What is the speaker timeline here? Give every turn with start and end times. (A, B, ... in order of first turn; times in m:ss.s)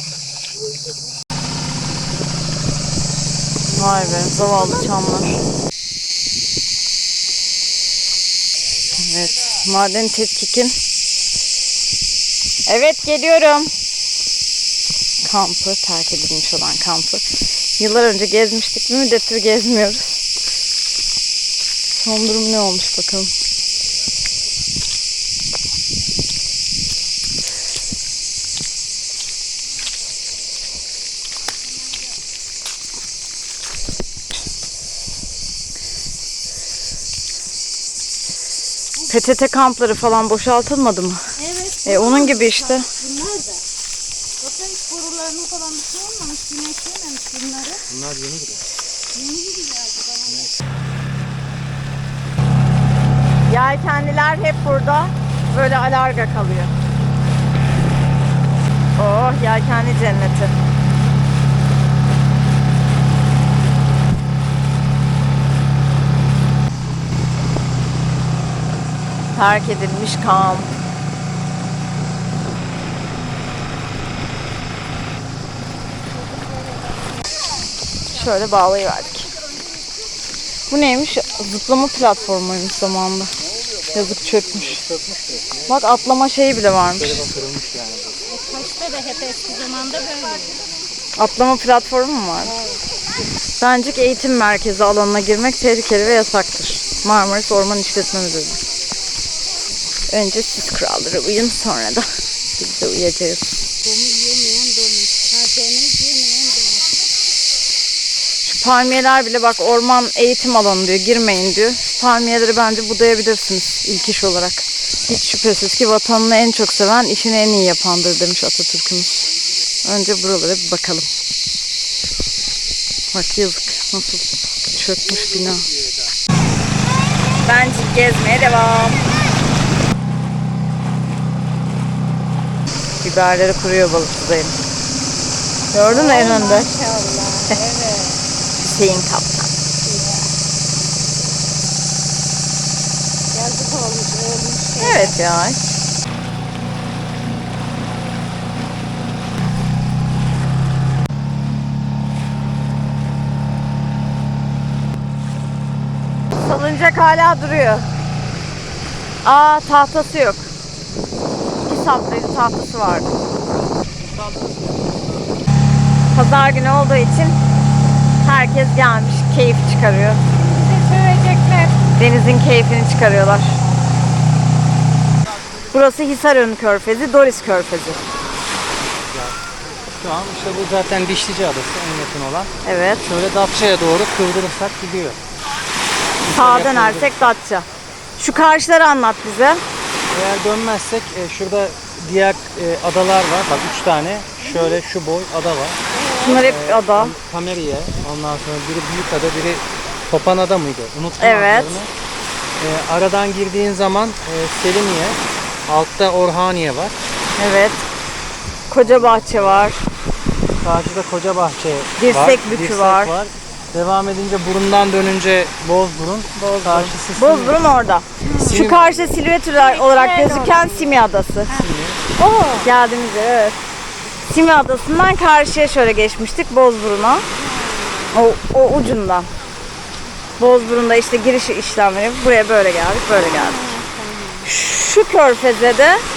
0:03.7-0:04.9 A
0:03.7-0:05.4 B
0:08.9-0:10.8 B
0:12.7-0:13.7 B
0:15.2-0:17.2 B
0:17.8-0:20.2 B
0:21.9-0:23.3 B
0:39.1-0:41.2 B
0:41.4-0:43.6 A
0:41.8-0:42.9 B
0:44.4-0:47.8 A
0:47.9-0:48.6 C
0:49.1-0:50.5 A
0:53.5-0:56.7 B
0:59.0-1:00.5 B
1:09.3-1:10.7 B
1:18.1-1:19.3 B
1:20.7-1:23.3 B
1:23.9-1:24.8 B
1:24.5-1:26.0 C
1:25.7-1:27.2 B
1:26.9-1:28.2 C
1:28.3-1:30.7 A
1:31.2-1:32.5 B
1:32.5-1:32.8 A
1:33.6-1:38.6 B
1:40.1-1:43.6 B
1:43.8-1:47.0 A
1:48.4-1:59.3 B
1:59.8-2:01.1 B
2:03.1-2:05.7 B
2:05.0-2:06.2 C
2:07.4-2:09.1 B
2:13.0-2:14.6 B
2:15.7-2:16.7 B
2:15.9-2:18.2 A
2:18.6-2:19.5 B
2:19.8-2:20.3 A
2:23.3-2:25.2 A
2:24.8-2:25.6 B
2:36.4-2:37.9 B
2:39.2-2:40.5 B
2:41.6-2:43.1 B
2:44.1-2:45.0 C
2:46.1-2:47.4 B
2:48.2-2:50.2 B
2:50.3-2:51.9 A
2:52.0-2:53.6 B
2:55.7-2:58.0 B
2:58.9-3:05.2 C
3:02.6-3:03.0 B
3:06.2-3:07.4 C
3:06.3-3:07.6 B
3:08.2-3:09.6 B
3:10.1-3:15.8 C
3:14.4-3:14.8 A
3:15.9-3:16.4 A
3:16.2-3:17.1 B
3:16.4-3:21.9 C
3:21.2-3:21.8 B
3:22.6-3:27.0 C
3:27.4-3:27.9 B
3:28.7-3:29.8 B
3:28.8-3:29.7 C
3:30.6-3:37.6 C
3:32.0-3:33.1 B
3:36.3-3:41.5 B
3:38.2-3:38.6 A
3:38.3-3:39.2 C
3:39.5-3:42.7 A
3:41.5-3:42.0 C
3:42.6-3:43.6 B
3:44.3-3:47.2 B
3:47.3-3:48.2 A
3:48.1-3:49.3 B
3:50.4-3:53.7 B
3:53.2-3:54.5 A
3:54.4-3:56.0 B